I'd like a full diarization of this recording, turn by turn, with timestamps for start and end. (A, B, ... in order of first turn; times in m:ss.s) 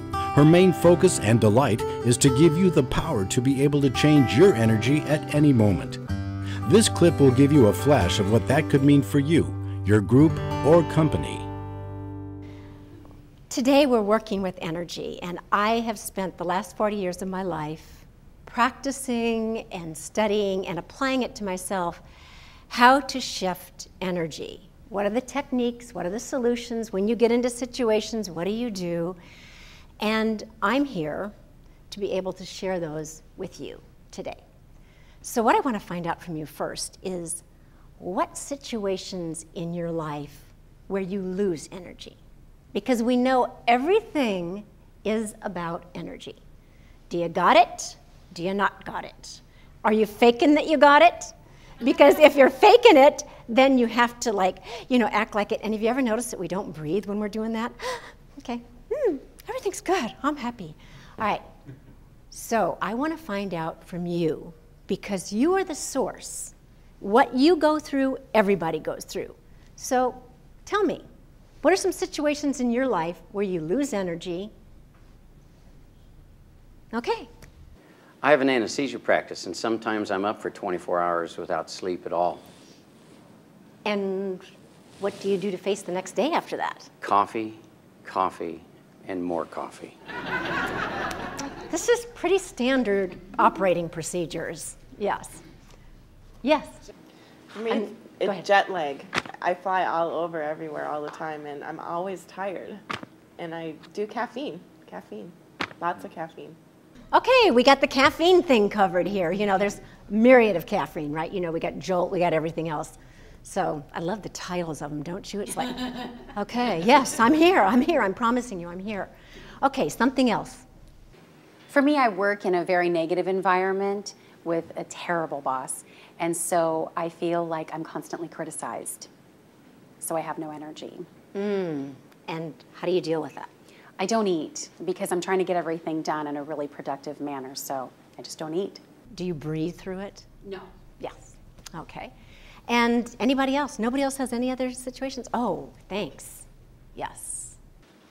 0:00.3-0:06.0 A
0:06.6-0:11.5 A
0:13.5-0:22.0 B
0:22.7-0:29.2 B
0:30.0-0:31.3 B
0:31.9-0:34.4 B
0:35.2-0:37.4 B
0:38.0-0:42.2 B
0:42.7-0:46.4 B
0:47.1-1:01.4 B
1:02.3-1:11.0 B
1:11.6-1:14.5 B
1:16.9-1:17.3 B
1:18.2-1:22.4 C
1:23.8-1:24.4 B
1:25.0-1:26.9 B
1:27.0-1:29.9 C
1:31.7-1:35.4 B
1:36.4-1:36.8 B
1:37.5-1:42.8 D
1:37.7-1:38.4 B
1:43.4-1:46.6 D
1:47.1-1:59.1 B
1:59.6-2:00.7 B
2:01.7-2:09.1 E
2:10.0-2:11.1 E
2:11.3-2:13.5 B
2:14.0-2:18.8 E
2:19.1-2:20.3 B
2:21.0-2:22.1 B
2:22.7-2:27.6 B